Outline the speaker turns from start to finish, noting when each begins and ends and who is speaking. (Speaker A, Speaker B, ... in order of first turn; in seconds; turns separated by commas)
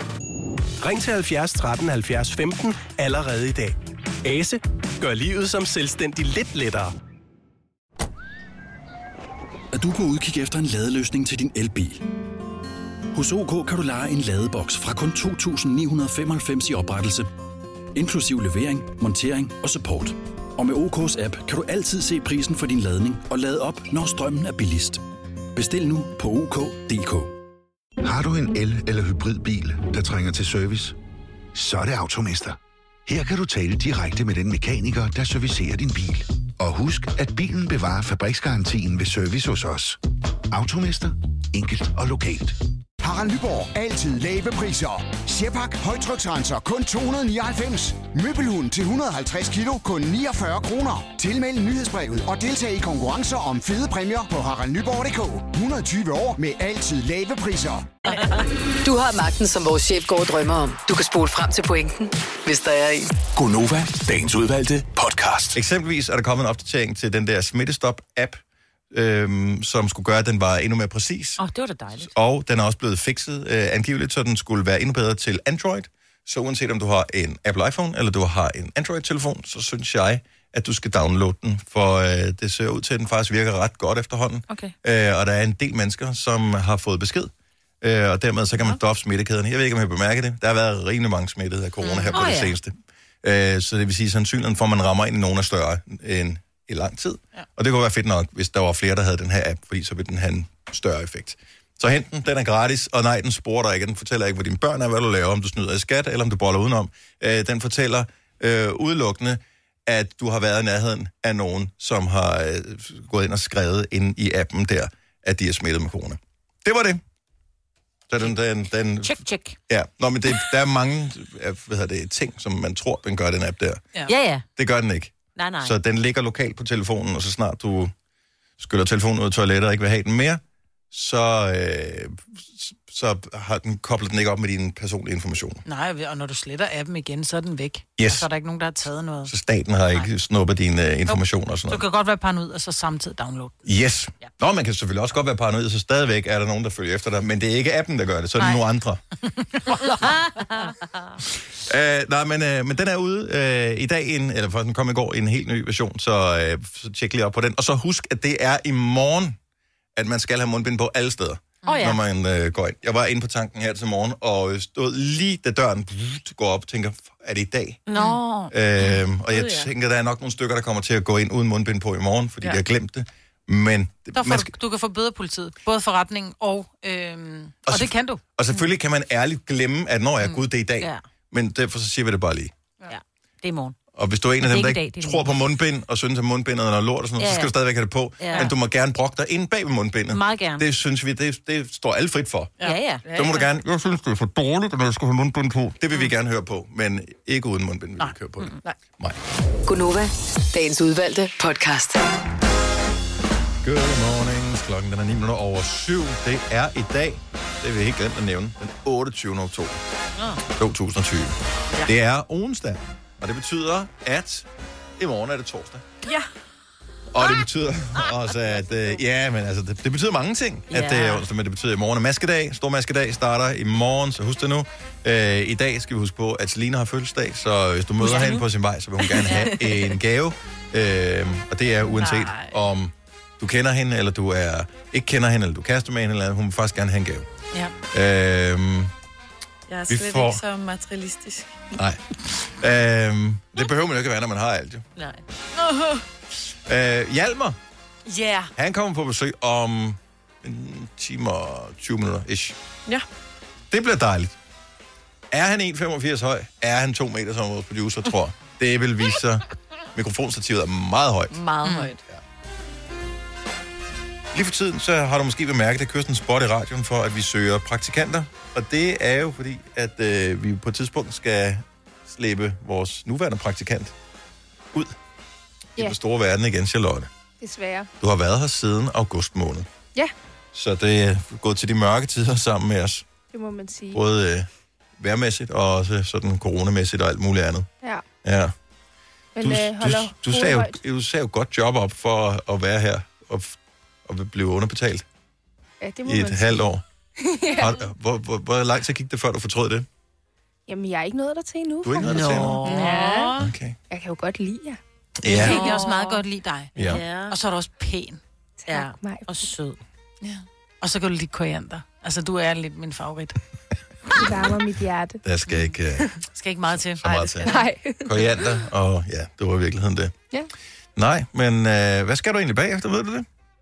Speaker A: 0.8-6.9, Speaker B: 9.7-12.0, Speaker B: 13.1-17.3, Speaker B: 17.9-25.0, Speaker B: 25.5-27.3, Speaker C: 28.0-30.9, Speaker C: 31.5-40.0, Speaker C: 40.5-42.5, Speaker D: 43.0-57.9, Speaker E: 58.8-63.1, Speaker B: 63.3-65.6, Speaker F: 65.5-68.4, Speaker F: 68.9-71.4, Speaker G: 71.4-72.1, Speaker F: 72.0-117.0, Speaker H: 91.8-92.3, Speaker G: 92.1-92.5, Speaker F: 118.1-123.8, Speaker G: 119.0-119.5, Speaker G: 124.1-124.4, Speaker F: 124.5-127.9, Speaker G: 125.3-125.7, Speaker F: 128.6-130.4, Speaker F: 130.9-135.6, Speaker H: 135.7-139.3, Speaker F: 138.0-138.3, Speaker F: 139.2-141.8, Speaker H: 141.1-143.5, Speaker F: 143.6-149.0, Speaker H: 149.4-150.1, Speaker G: 150.0-150.8, Speaker F: 151.3-159.3, Speaker F: 159.9-167.8, Speaker G: 161.6-162.0, Speaker G: 167.9-168.5, Speaker F: 168.5-174.5, Speaker I: 169.3-169.7, Speaker H: 174.1-178.2, Speaker F: 177.7-182.5, Speaker G: 182.9-183.8, Speaker F: 183.9-199.2, Speaker G: 184.4-185.3, Speaker G: 187.2-187.5, Speaker G: 188.2-188.5, Speaker G: 190.1-190.6, Speaker G: 192.6-193.0, Speaker I: 193.0-193.5, Speaker E: 199.7-202.0, Speaker F: 203.6-209.8, Speaker F: 210.6-214.5, Speaker F: 215.0-215.8, Speaker F: 217.1-237.3, Speaker G: 220.7-221.2, Speaker H: 228.0-228.3, Speaker I: 229.2-229.9, Speaker I: 231.9-232.6, Speaker F: 237.9-238.9, Speaker I: 239.7-241.7, Speaker F: 239.9-240.4, Speaker F: 241.7-244.8, Speaker I: 245.6-246.0, Speaker F: 246.6-247.6, Speaker F: 248.6-252.6, Speaker F: 253.7-254.3, Speaker F: 255.3-261.4, Speaker I: 261.3-262.0, Speaker H: 261.6-261.9, Speaker F: 264.3-273.9, Speaker F: 275.8-277.1, Speaker J: 277.4-277.9, Speaker F: 278.0-279.7, Speaker F: 280.5-283.1, Speaker J: 283.3-284.0, Speaker F: 283.9-284.5, Speaker F: 285.0-287.7, Speaker F: 288.2-288.5, Speaker J: 289.4-290.8, Speaker F: 289.4-295.0, Speaker J: 295.8-296.6, Speaker F: 296.1-296.8, Speaker J: 297.2-297.8, Speaker F: 297.6-299.9, Speaker J: 300.7-303.3, Speaker F: 301.8-302.7, Speaker G: 302.0-303.5, Speaker H: 302.1-303.3, Speaker F: 303.4-303.8, Speaker J: 303.9-304.8, Speaker F: 305.2-305.6, Speaker H: 305.2-308.2, Speaker G: 305.3-306.2, Speaker F: 306.8-307.0, Speaker G: 306.8-307.4, Speaker J: 308.6-309.2, Speaker G: 308.7-309.8, Speaker H: 310.2-313.4, Speaker J: 314.1-315.2, Speaker F: 315.2-316.1, Speaker H: 316.3-317.6, Speaker F: 316.7-320.1, Speaker J: 317.4-318.4, Speaker F: 320.9-323.2